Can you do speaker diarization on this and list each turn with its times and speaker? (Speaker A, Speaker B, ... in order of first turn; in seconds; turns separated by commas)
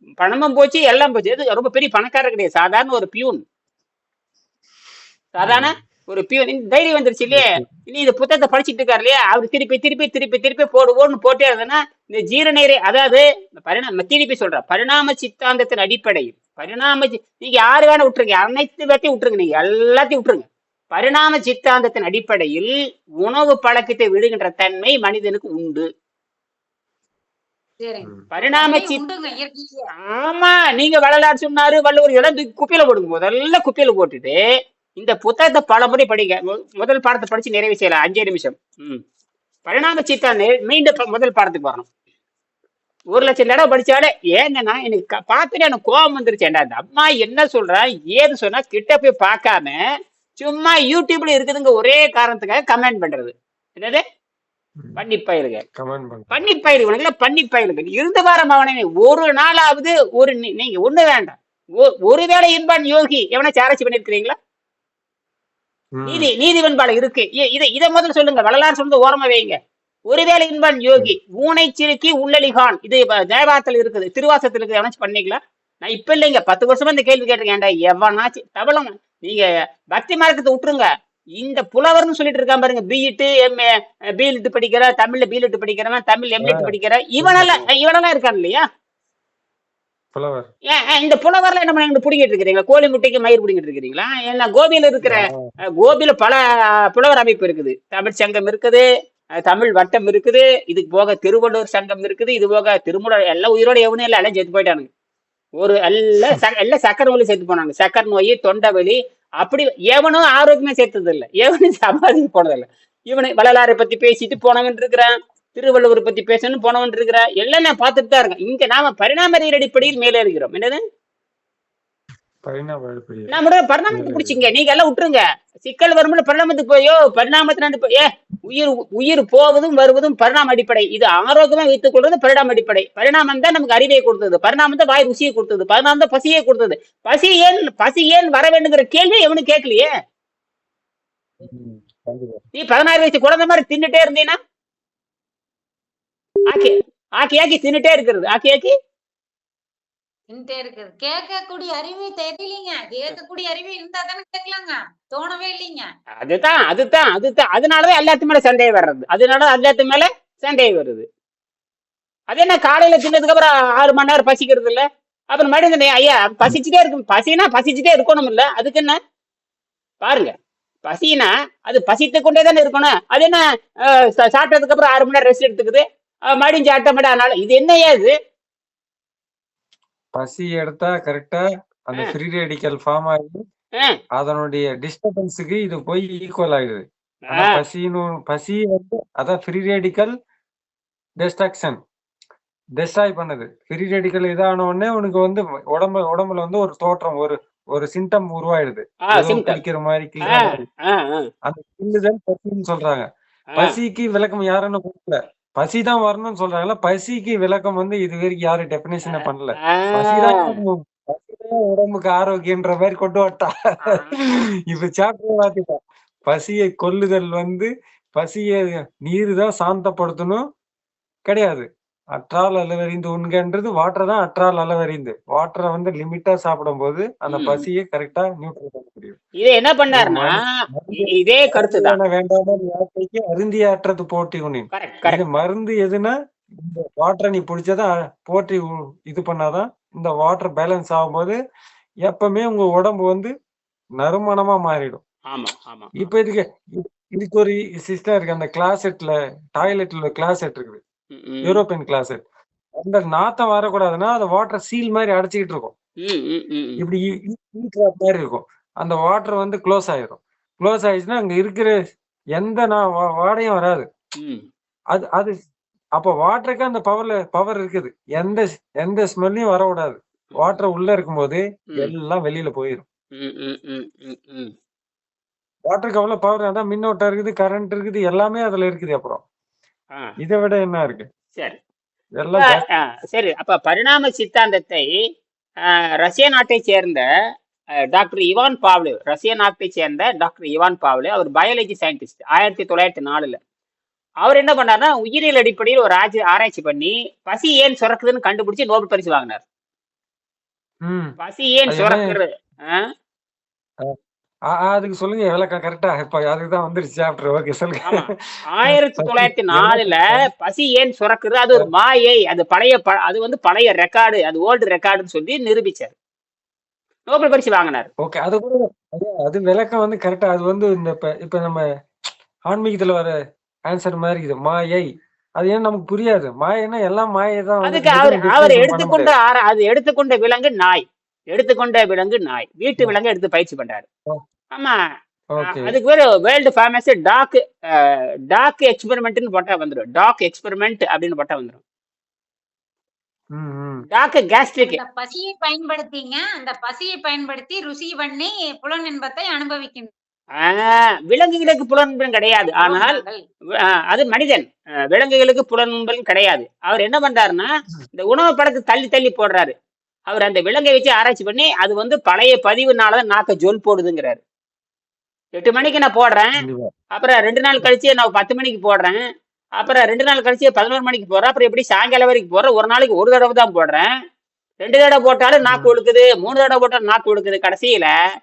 Speaker A: 0.2-3.4, Speaker A: 5.3-22.7, Speaker B: 5.4-5.7, Speaker B: 7.3-7.7, Speaker A: 23.2-25.9, Speaker C: 27.8-29.9, Speaker A: 28.3-29.0, Speaker A: 30.1-34.4, Speaker A: 35.0-39.0, Speaker A: 39.6-41.9, Speaker A: 43.1-49.8, Speaker A: 50.4-54.0, Speaker A: 55.0-55.6, Speaker B: 55.8-56.4, Speaker A: 56.3-64.3, Speaker B: 65.9-66.3, Speaker A: 66.1-69.5, Speaker A: 70.1-80.8, Speaker A: 81.4-83.7, Speaker A: 84.2-88.6, Speaker B: 86.4-87.7, Speaker B: 90.1-90.5, Speaker A: 90.7-98.8, Speaker B: 95.0-95.5, Speaker A: 99.4-104.9, Speaker A: 105.6-120.8, Speaker B: 122.4-123.4, Speaker A: 123.3-139.9, Speaker B: 123.9-124.4, Speaker B: 141.4-142.4, Speaker A: 142.6-144.3, Speaker A: 146.5-148.7, Speaker C: 150.3-155.9, Speaker A: 156.2-161.0, Speaker A: 162.3-169.0, Speaker A: 170.0-170.3, Speaker A: 170.8-178.1, Speaker B: 180.1-183.4, Speaker B: 184.2-190.1, Speaker A: 187.3-187.6, Speaker B: 191.2-191.8, Speaker B: 192.8-200.6, Speaker A: 199.1-199.6, Speaker A: 200.3-201.2, Speaker B: 201.4-214.0, Speaker A: 209.1-210.5, Speaker A: 213.8-214.1, Speaker B: 214.7-215.8, Speaker B: 216.3-220.4, Speaker B: 221.2-229.2, Speaker A: 227.3-227.6, Speaker A: 229.4-230.3, Speaker B: 229.9-241.3, Speaker A: 231.0-231.9, Speaker A: 234.7-235.2, Speaker B: 242.0-243.3, Speaker B: 244.0-245.0, Speaker A: 245.3-245.9, Speaker B: 246.0-250.8, Speaker A: 251.1-251.6, Speaker B: 251.4-252.2, Speaker B: 252.8-255.7, Speaker A: 256.0-256.8, Speaker B: 256.8-261.7, Speaker B: 262.3-263.9, Speaker B: 264.9-265.3, Speaker B: 266.0-272.8, Speaker A: 273.1-274.5, Speaker B: 275.7-279.2, Speaker B: 280.2-281.1, Speaker B: 282.2-282.6, Speaker A: 282.4-284.9, Speaker A: 286.0-287.0, Speaker A: 287.9-293.4, Speaker A: 294.2-299.4, Speaker B: 300.8-301.2, Speaker A: 301.2-302.8, Speaker B: 301.7-302.1, Speaker B: 304.5-308.1, Speaker A: 307.9-315.9, Speaker B: 308.6-310.1, Speaker A: 317.1-317.9, Speaker B: 318.0-321.6, Speaker B: 322.5-323.1, Speaker B: 323.7-329.1, Speaker A: 327.6-333.9, Speaker B: 335.4-335.8, Speaker A: 335.5-341.6, Speaker B: 343.3-343.8, Speaker A: 343.9-344.8, Speaker C: 344.6-349.9, Speaker A: 350.4-353.0, Speaker C: 352.5-353.2, Speaker A: 353.7-359.5, Speaker A: 360.1-364.2, Speaker A: 365.4-366.3, Speaker B: 366.4-366.7, Speaker A: 366.9-369.0, Speaker A: 369.6-373.9, Speaker A: 374.6-377.9, Speaker B: 375.4-375.7